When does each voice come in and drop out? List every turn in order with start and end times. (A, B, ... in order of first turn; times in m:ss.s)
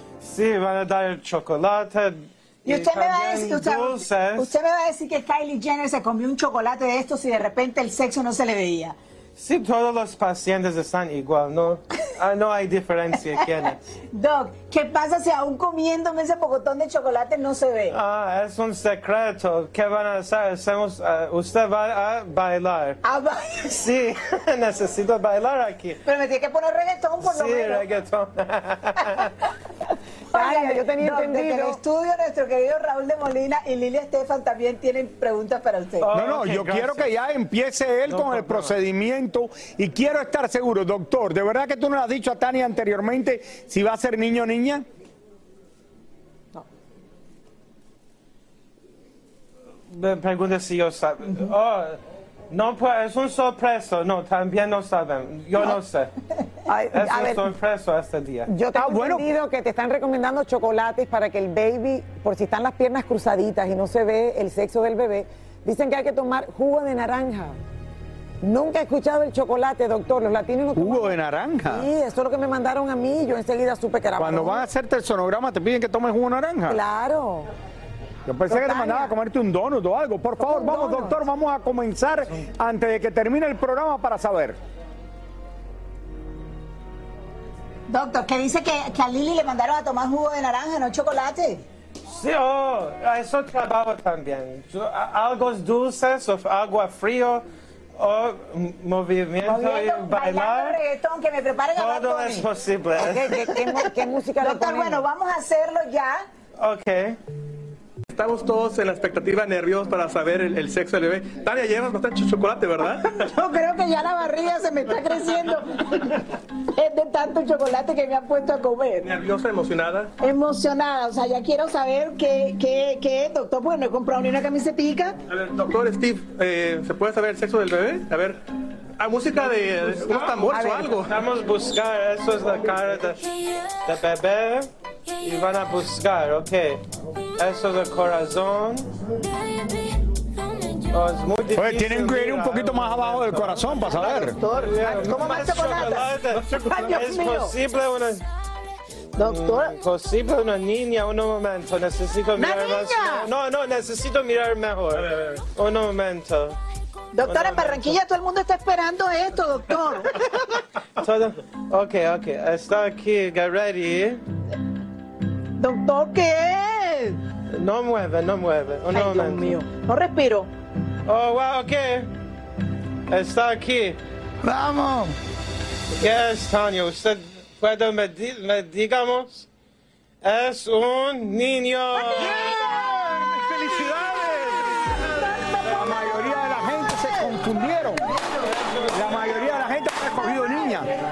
0:00.2-0:04.5 A
0:02.6-0:09.0 B
0:09.4-0:13.8 A
0:14.1-0:18.0 B
0:17.9-0:23.0 A
0:23.0-0:23.8 B
0:23.7-0:26.0 A
0:26.0-0:27.9 B
0:27.2-0:29.3 A
0:30.3-0:31.8 C
0:30.3-0:36.1 B
0:36.0-0:37.1 A
0:36.1-0:44.8 D
0:38.1-0:38.8 A
0:49.9-0:52.0 A
0:52.5-0:56.1 A
0:56.7-0:57.5 C
0:56.9-0:58.5 A
0:58.5-1:07.6 C
0:58.8-0:59.3 D
1:08.4-1:14.7 C
1:10.8-1:11.9 D
1:14.2-1:16.8 D
1:16.7-1:17.5 C
1:18.3-1:24.6 D
1:18.5-1:19.1 C
1:20.4-1:21.2 C
1:27.9-1:31.6 B
1:32.1-1:40.8 A
1:39.4-1:42.5 B
1:41.8-1:43.4 A
1:43.0-1:45.0 C
1:44.4-1:46.3 B
1:46.6-1:47.2 A
1:48.1-1:53.2 E
1:53.1-1:56.1 B
1:56.8-1:59.1 B
1:59.0-2:00.1 E
2:00.2-2:05.2 B
2:05.3-2:08.4 E
2:09.0-2:11.1 E
2:10.0-2:13.2 A
2:10.5-2:11.0 C
2:13.8-2:14.7 A
2:15.2-2:16.8 A
2:17.4-2:18.9 A
2:20.9-2:28.2 A
2:21.5-2:24.4 D
2:23.9-2:27.6 B
2:26.4-2:26.8 E
2:29.2-2:29.8 B
2:29.2-2:36.6 A
2:32.4-2:33.3 B
2:37.1-2:40.2 B
2:37.2-2:38.0 A
2:41.0-2:44.2 A
2:45.6-2:47.2 B
2:47.5-2:49.6 A
2:48.9-2:50.5 B
2:51.1-2:52.1 A
2:53.1-2:54.0 A
2:56.0-2:59.5 A
3:00.2-3:02.6 A
3:03.5-3:04.5 D
3:05.2-3:05.6 B
3:05.6-3:06.2 A
3:05.6-3:08.0 D
3:08.4-3:09.6 A
3:08.9-3:10.9 D